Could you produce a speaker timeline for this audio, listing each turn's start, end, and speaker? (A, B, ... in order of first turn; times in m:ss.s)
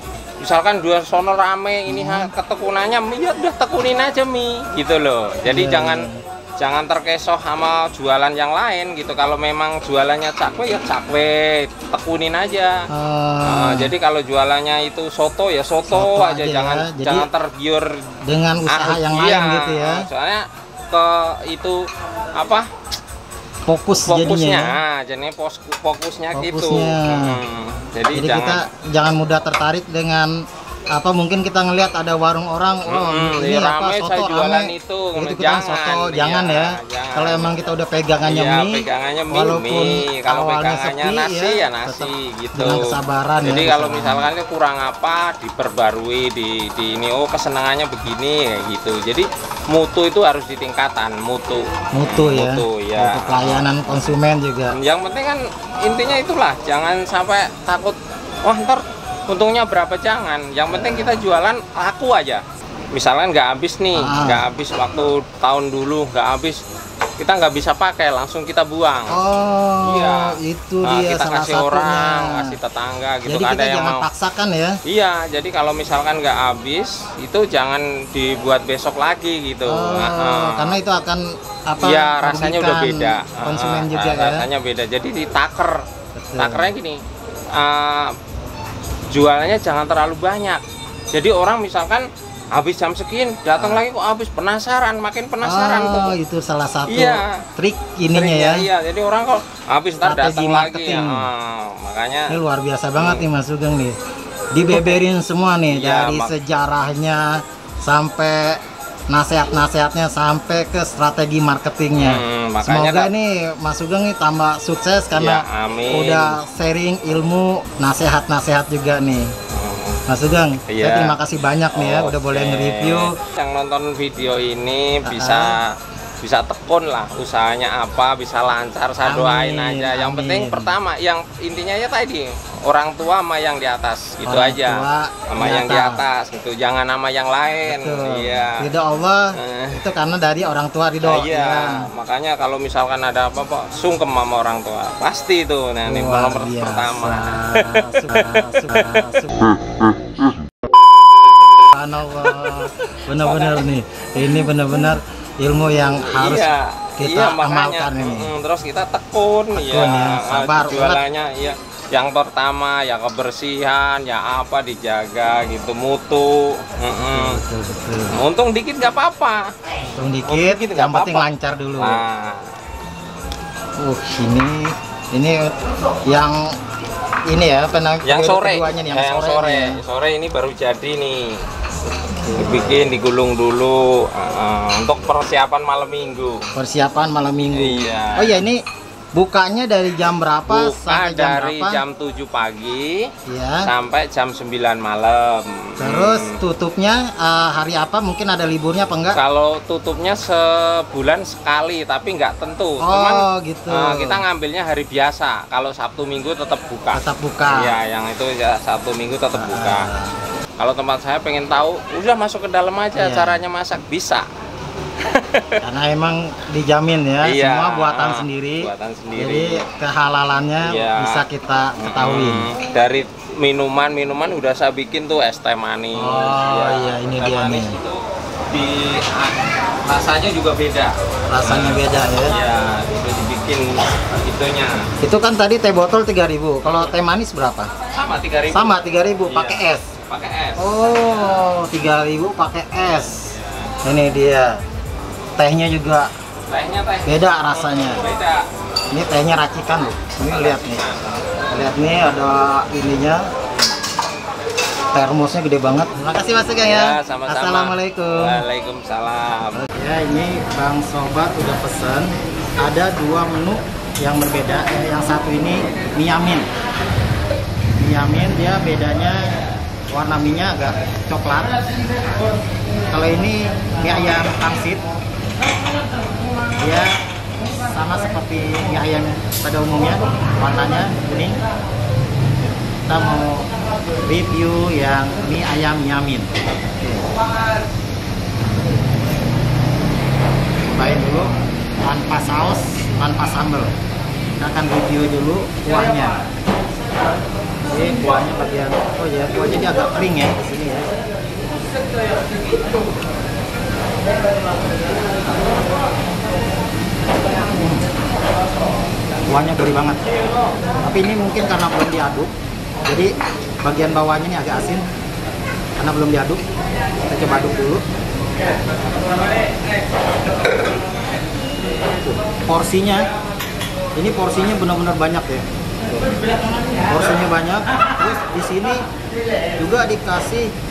0:00.4-0:06.1 A
0:01.9-0:02.3 B
0:05.4-0:06.2 B
0:06.6-0:12.7 A
0:12.9-0:13.9 B
0:13.4-0:18.0 A
0:15.9-0:17.3 B
0:18.2-0:20.1 B
0:18.6-0:22.7 A
0:23.6-0:24.7 B
0:23.9-0:28.6 A
0:26.3-0:27.4 B
0:28.1-0:30.3 B
0:30.9-0:44.3 B
0:32.9-0:37.6 A
0:38.2-0:42.8 A
0:43.4-0:53.9 A
0:51.9-0:54.7 B
0:54.7-1:02.4 A
1:00.7-1:01.2 B
1:02.9-1:06.6 A
1:03.9-1:04.4 B
1:07.2-1:09.1 A
1:09.1-1:12.6 B
1:09.8-1:10.3 A
1:10.8-1:14.0 A
1:13.2-1:14.8 B
1:14.9-1:20.8 A
1:19.6-1:24.4 B
1:21.8-1:25.8 A
1:26.1-1:26.7 B
1:26.4-1:27.0 A
1:27.5-1:28.1 A
1:29.1-1:30.6 A
1:31.1-1:36.2 A
1:33.6-1:33.8 B
1:35.4-1:38.6 B
1:36.9-1:37.4 A
1:38.1-1:42.3 A
1:39.9-1:41.3 B
1:42.3-1:44.0 B
1:43.0-1:43.2 A
1:44.5-1:48.6 B
1:44.7-1:45.0 A
1:45.7-1:46.3 A
1:49.1-1:59.3 B
1:52.0-1:53.1 A
1:55.1-1:56.4 A
1:59.5-2:00.0 A
2:00.1-2:03.2 B
2:00.7-2:01.2 A
2:01.7-2:18.6 A
2:05.0-2:05.5 B
2:09.0-2:10.8 B
2:14.2-2:16.0 B
2:17.6-2:21.9 B
2:19.4-2:19.8 A
2:21.0-2:29.2 A
2:25.8-2:29.5 B
2:31.7-2:38.3 B
2:32.2-2:32.7 A
2:33.2-2:33.6 A
2:36.1-2:47.4 A
2:39.5-2:41.0 B
2:47.1-2:48.2 B
2:48.1-2:49.4 A
2:50.0-2:52.0 B
2:50.2-2:51.3 A
2:51.8-2:52.5 A
2:53.8-2:55.5 B
2:56.0-2:56.5 B
2:57.3-2:59.8 B
2:58.0-3:01.2 A
3:02.1-3:02.9 B
3:02.4-3:06.4 A
3:06.5-3:08.6 B
3:07.5-3:08.4 A
3:09.1-3:11.8 B
3:10.5-3:13.0 A
3:13.3-3:13.7 B
3:13.6-3:16.4 A
3:15.8-3:19.2 B
3:19.1-3:29.8 A
3:22.8-3:24.2 B
3:26.9-3:27.8 B
3:29.3-3:30.1 B
3:30.6-3:34.2 A
3:33.0-3:33.4 B
3:35.0-3:35.6 A
3:35.6-3:42.4 B
3:37.2-3:39.6 A
3:40.6-3:41.2 A
3:41.8-3:48.0 A
3:46.0-3:47.8 B
3:48.5-3:50.9 A
3:51.3-3:52.4 B
3:51.4-3:54.8 A
3:55.0-3:57.7 B
3:56.6-3:57.0 A
3:57.9-4:01.5 A
3:58.5-3:59.9 B
4:00.6-4:03.3 B
4:02.8-4:03.7 A
4:03.8-4:04.6 B
4:05.4-4:06.1 B
4:06.5-4:08.4 A
4:07.0-4:08.0 B
4:08.9-4:10.9 B
4:10.2-4:11.3 A
4:11.5-4:13.2 B
4:14.9-4:18.4 B
4:16.6-4:19.6 A
4:19.5-4:26.4 B
4:27.8-4:29.3 B
4:29.9-4:31.6 B
4:32.9-4:34.8 B
4:36.6-4:41.4 B
4:42.9-4:43.5 B
4:44.0-4:47.1 B
4:50.6-4:51.3 B
4:51.8-4:53.7 B
4:54.4-4:56.2 B
4:57.7-5:00.9 B
5:07.5-5:07.8 B
5:09.3-5:10.0 B
5:10.8-5:12.3 B
5:12.9-5:14.8 B
5:15.8-5:16.4 B
5:17.1-5:17.8 B
5:22.0-5:23.1 B
5:24.0-5:25.4 B
5:26.8-5:28.8 B
5:29.6-5:30.5 B